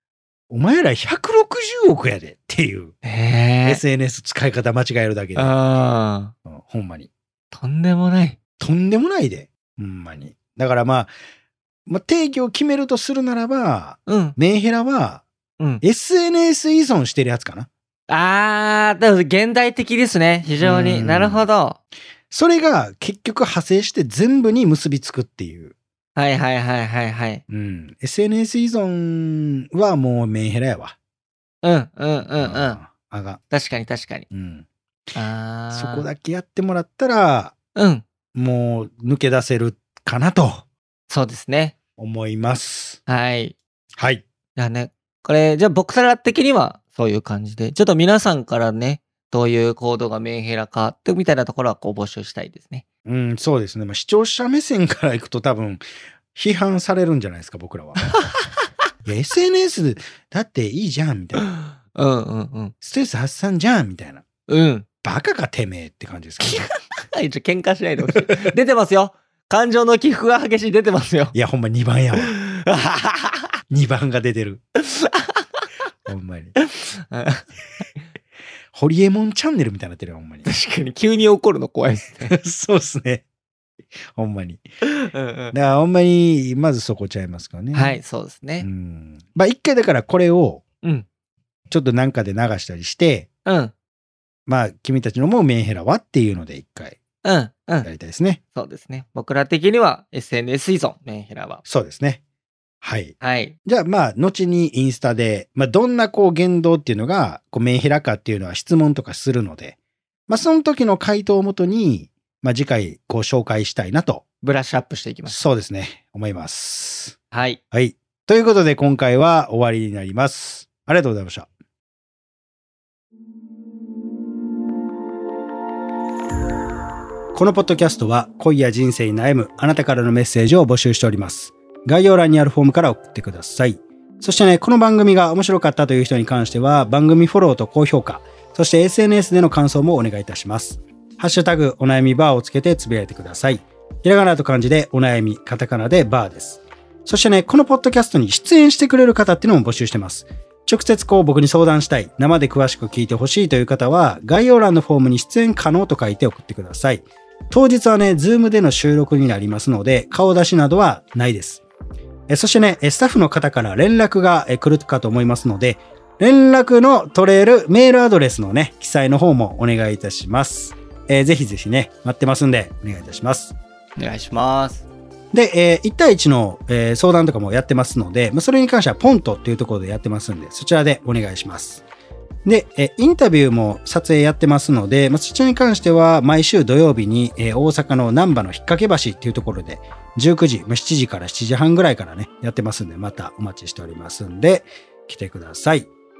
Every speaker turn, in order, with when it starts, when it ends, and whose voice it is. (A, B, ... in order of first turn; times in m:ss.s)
0:00.5-0:02.9 A
0:03.0-0:03.8 B
0:03.6-0:05.6 A
0:05.4-0:06.3 B
0:06.4-0:07.1 A
0:07.5-0:08.4 B
0:08.6-0:11.1 A
0:11.9-0:15.2 A
0:14.1-0:14.4 B
0:15.8-0:17.7 A
0:18.1-0:21.8 B
0:20.6-0:21.5 A
0:22.3-0:25.7 A
0:26.2-0:27.4 B
0:27.5-0:31.0 A
0:31.6-0:32.8 B
0:32.4-0:33.4 A
0:33.5-0:34.3 B
0:34.3-0:34.6 A
0:35.1-0:36.1 B
0:35.7-0:37.5 A
0:37.7-0:38.0 B
0:38.3-0:40.6 A
0:41.1-0:41.7 B
0:42.0-0:43.0 A
0:43.1-0:43.5 B
0:44.0-0:44.2 A
0:44.6-0:52.8 B
0:53.0-0:55.8 A
0:56.3-0:58.0 A
0:58.2-0:58.7 B
0:59.0-1:01.5 A
1:01.4-1:02.7 B
1:02.8-1:04.2 A
1:04.5-1:04.8 B
1:05.0-1:06.6 A
1:06.4-1:11.3 B
1:11.3-1:12.3 A
1:12.2-1:13.5 B
1:13.7-1:14.6 A
1:14.8-1:15.5 B
1:16.1-1:16.6 A
1:16.6-1:17.4 B
1:18.7-1:20.5 A
1:20.4-1:22.3 B
1:22.2-1:23.2 A
1:24.1-1:24.6 A
1:24.8-1:25.5 B
1:25.5-1:28.0 A
1:27.7-1:28.7 B
1:28.6-1:30.6 A
1:31.7-1:33.3 A
1:33.4-1:33.7 B
1:34.5-1:37.0 A
1:37.2-1:37.9 B
1:37.8-1:38.4 A
1:38.5-1:41.6 B
1:41.6-1:42.2 A
1:42.8-1:49.8 A
1:43.2-1:43.5 B
1:50.3-1:54.2 A
1:54.4-1:55.4 B
1:55.3-1:57.2 A
1:57.3-1:57.6 B
1:57.7-2:01.5 A
2:07.3-2:41.6 A
2:42.3-2:53.5 A
2:54.0-2:54.8 B
2:55.3-3:01.8 A
3:02.4-3:15.9 A